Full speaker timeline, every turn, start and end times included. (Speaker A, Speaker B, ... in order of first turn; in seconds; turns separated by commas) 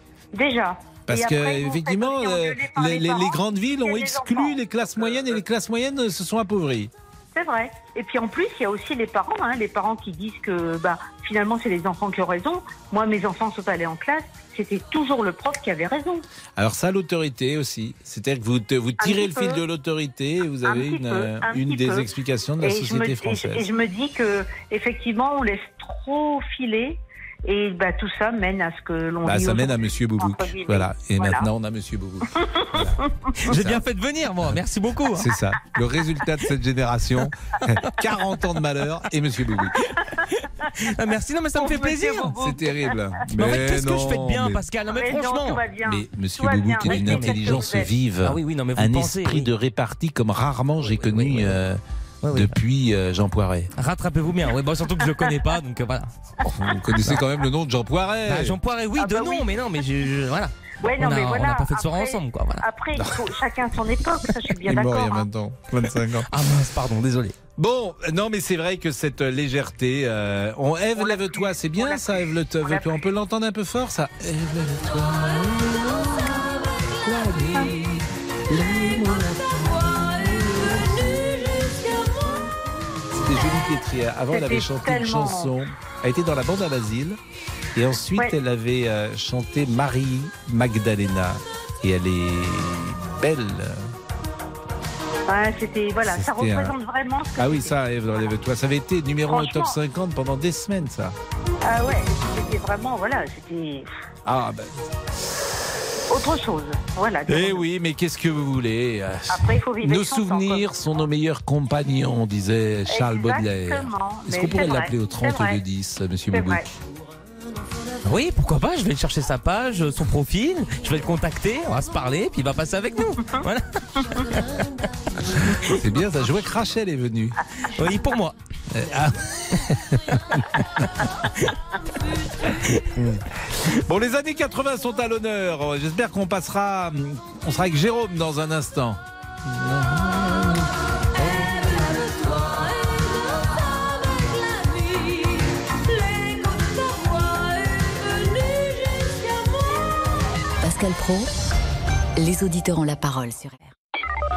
Speaker A: 0.3-5.3, Speaker B: 1.1-6.9, Speaker A: 7.3-16.2, Speaker B: 16.6-23.7, Speaker A: 19.0-19.6, Speaker A: 20.6-22.1, Speaker A: 22.6-31.5, Speaker B: 29.2-33.8, Speaker C: 33.5-35.3, Speaker B: 35.1-39.8, Speaker C: 40.8-42.4, Speaker A: 41.6-42.9, Speaker B: 42.3-44.6, Speaker C: 43.4-45.7, Speaker A: 44.9-47.9, Speaker B: 45.8-51.8, Speaker C: 46.8-47.5, Speaker C: 48.2-49.5, Speaker C: 50.8-51.6, Speaker C: 52.2-52.6, Speaker B: 52.3-53.7, Speaker C: 53.8-56.1, Speaker A: 55.1-55.4, Speaker B: 56.5-58.5, Speaker C: 58.3-62.7, Speaker A: 59.0-60.1, Speaker A: 60.8-65.3, Speaker B: 63.0-63.2, Speaker B: 64.6-66.3, Speaker C: 66.3-67.3, Speaker B: 67.5-76.4, Speaker A: 71.0-73.0, Speaker B: 77.0-81.4, Speaker B: 83.1-87.2, Speaker A: 84.3-85.5, Speaker B: 87.8-93.9, Speaker A: 95.3-98.3, Speaker B: 96.0-96.7, Speaker B: 97.4-101.2, Speaker A: 99.3-99.8, Speaker A: 101.7-103.9, Speaker B: 104.3-104.7, Speaker A: 106.1-107.6, Speaker B: 107.3-116.6, Speaker A: 109.3-110.7, Speaker A: 112.9-115.6, Speaker A: 116.3-116.7, Speaker C: 118.0-124.2, Speaker B: 125.7-127.4, Speaker C: 127.8-128.4, Speaker B: 128.7-130.9, Speaker B: 133.8-141.5, Speaker D: 150.6-151.3, Speaker D: 152.2-153.7